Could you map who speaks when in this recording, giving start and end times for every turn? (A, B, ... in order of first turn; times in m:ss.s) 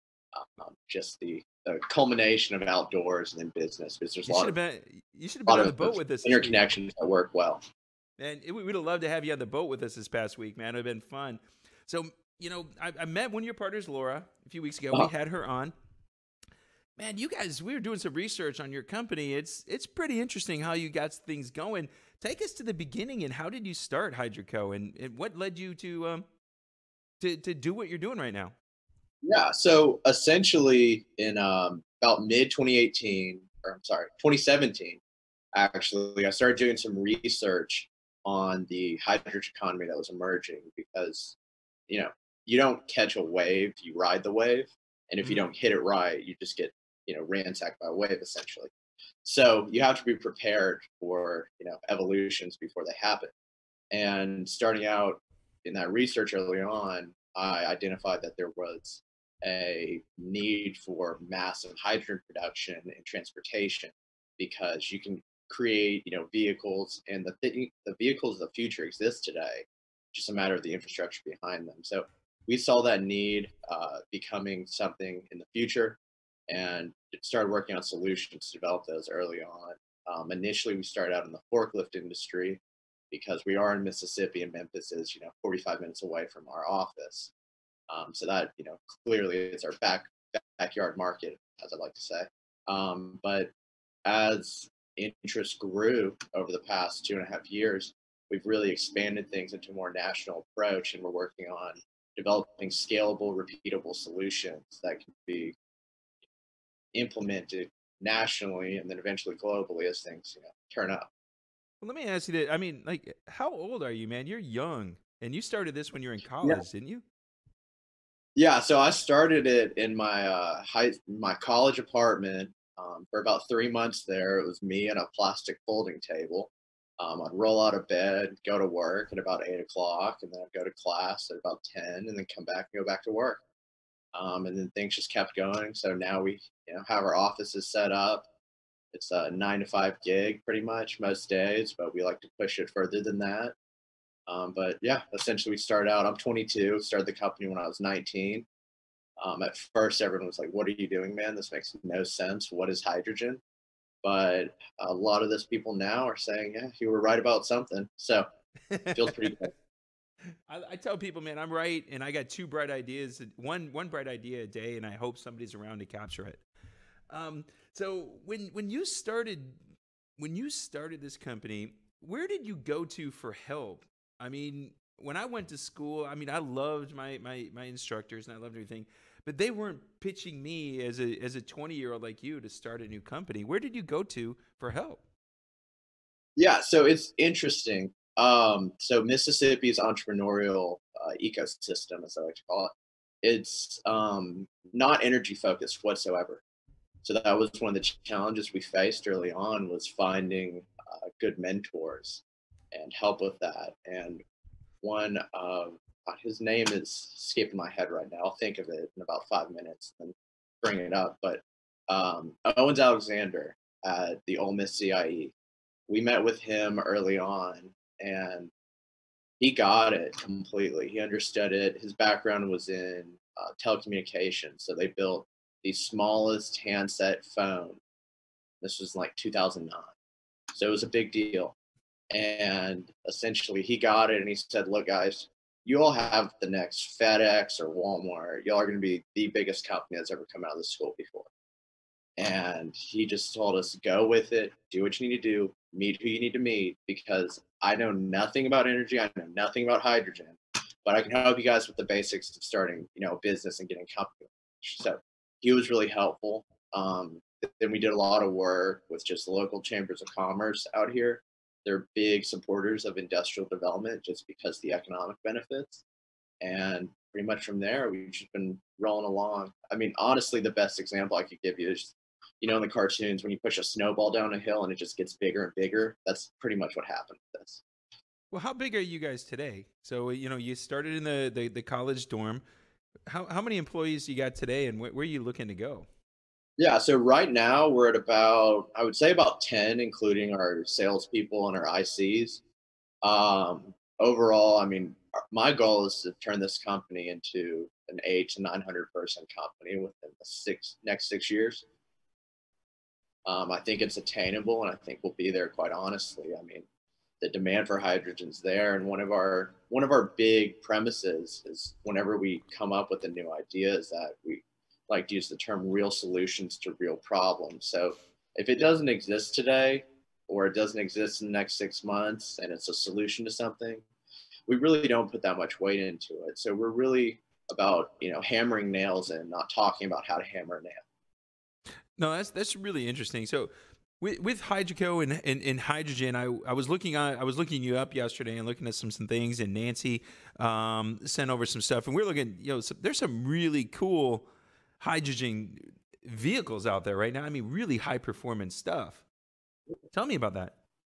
0:00.3-0:04.5 A
0:04.2-0:06.6 B
0:05.5-0:07.6 A
0:08.2-0:15.7 B
0:17.0-0:26.2 B
0:27.2-0:28.5 B
0:29.2-0:35.0 A
0:35.5-0:41.4 A
0:41.9-0:48.7 A
0:49.2-0:53.3 A
0:53.9-1:22.6 A
1:23.1-1:27.3 A
1:27.9-1:33.5 A
1:34.0-1:45.5 A
1:46.9-1:51.1 A
1:51.8-1:57.0 B
1:58.4-2:13.4 A
2:14.1-2:18.3 A
2:18.9-2:23.5 A
2:24.3-2:28.4 A
2:29.2-2:33.4 A
2:34.0-2:38.3 A
2:38.7-2:39.3 B
2:39.0-2:39.5 A
2:40.5-2:46.4 B
2:47.1-2:49.6 B
2:50.2-3:05.0 B
3:06.4-3:16.4 A
3:17.0-3:22.2 A
3:22.7-3:24.2 A
3:24.8-3:35.3 A
3:35.9-3:38.5 A
3:39.4-3:47.8 A
3:48.6-3:49.9 A
3:50.5-3:51.5 A
3:52.1-4:01.3 A
4:02.2-4:25.8 A
4:26.4-4:37.6 A
4:38.3-4:42.4 B
4:43.1-4:45.9 B
4:46.6-4:52.4 A
4:53.0-5:01.6 A
5:03.2-5:06.6 A
5:07.2-5:23.8 A
5:24.5-5:30.8 A
5:32.0-5:44.3 B
5:44.8-5:49.0 B
5:49.9-5:50.5 B